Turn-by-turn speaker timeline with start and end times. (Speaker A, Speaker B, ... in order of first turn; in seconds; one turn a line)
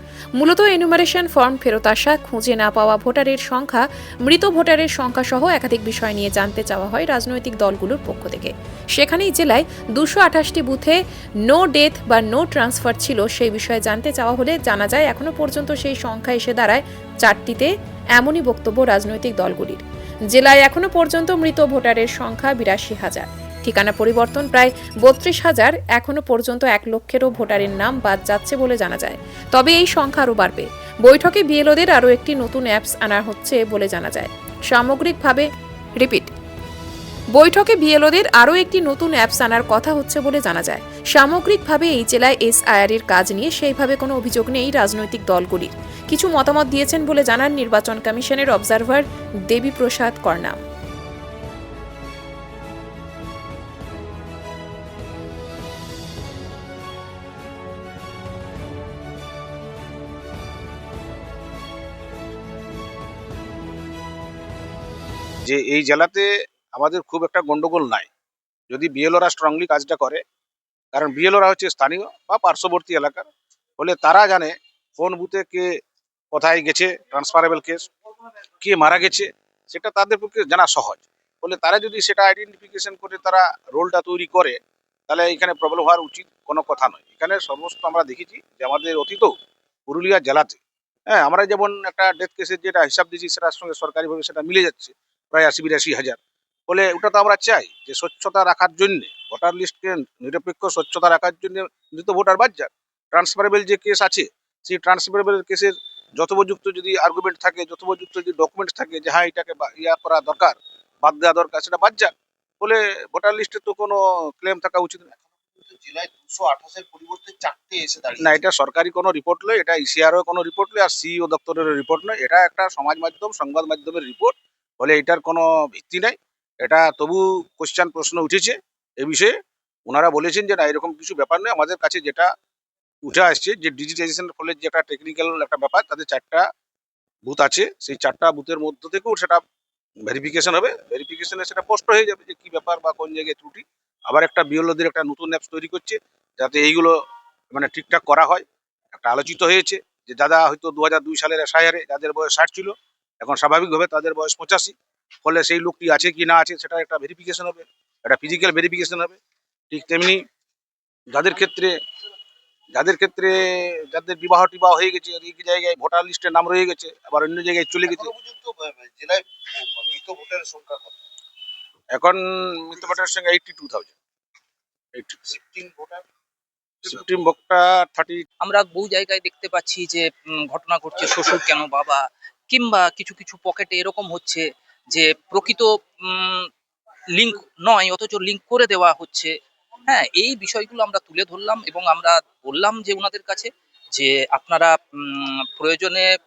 Speaker A: 0.4-36.3
Speaker A: 37.4-50.6
Speaker B: 65.5-68.1
Speaker B: 68.7-70.2
Speaker B: 70.9-75.7
Speaker B: 76.3-77.9
Speaker B: 78.6-84.6
Speaker B: 85.1-90.6
Speaker B: 91.1-115.1
Speaker C: 115.4-118.4
Speaker B: 118.2-129.3
Speaker B: 129.9-132.3
Speaker B: 133.0-136.5
Speaker B: 137.2-139.4
Speaker B: 140.1-147.0
Speaker B: 147.5-159.2
Speaker B: 159.7-160.2
Speaker B: 161.1-161.7
Speaker B: 162.7-168.1
Speaker C: 167.9-170.9
Speaker B: 171.9-173.9
Speaker C: 175.2-176.0
Speaker B: 176.8-178.2
Speaker D: 178.4-186.5
Speaker D: 187.1-189.3
Speaker D: 189.9-196.1